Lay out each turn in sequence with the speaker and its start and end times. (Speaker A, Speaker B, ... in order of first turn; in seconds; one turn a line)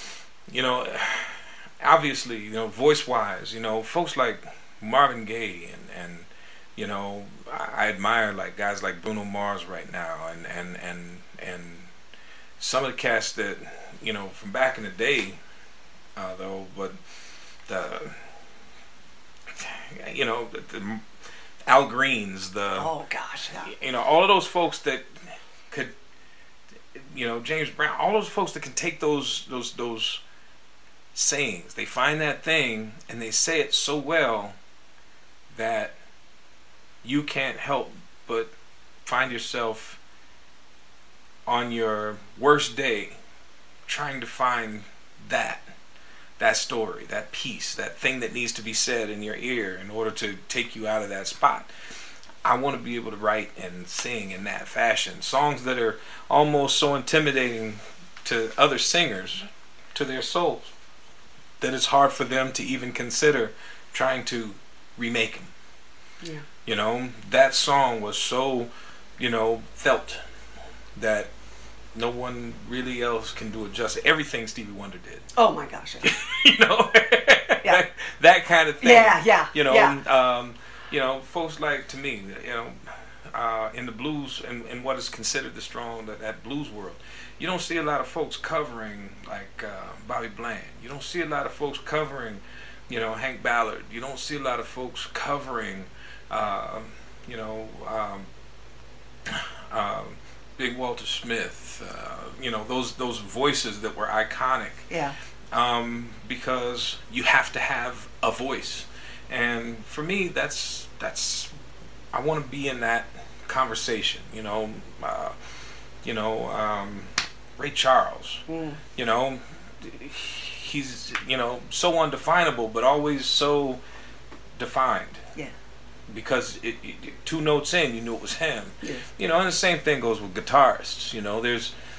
Speaker A: 0.5-11.9
Speaker A: 12.6-15.4
Speaker A: 16.2-17.0
Speaker A: 17.7-18.2
Speaker A: 19.5-21.0
Speaker A: 21.7-22.9
Speaker B: 22.7-23.7
Speaker A: 23.6-25.1
Speaker A: 26.9-30.2
Speaker A: 31.1-34.5
Speaker A: 35.5-36.0
Speaker A: 37.0-38.5
Speaker A: 39.0-40.0
Speaker A: 41.5-43.2
Speaker A: 43.9-45.7
Speaker A: 46.4-51.7
Speaker A: 52.4-60.7
Speaker A: 61.6-65.5
Speaker A: 66.6-70.2
Speaker A: 70.9-71.3
Speaker A: 71.9-75.3
Speaker B: 75.3-76.0
Speaker A: 76.0-82.8
Speaker B: 78.8-80.0
Speaker A: 83.3-98.3
Speaker A: 99.3-104.9
Speaker B: 104.9-105.1
Speaker A: 105.5-111.5
Speaker A: 112.1-115.3
Speaker A: 116.0-123.8
Speaker B: 118.5-118.8
Speaker A: 124.6-125.2
Speaker A: 126.1-131.7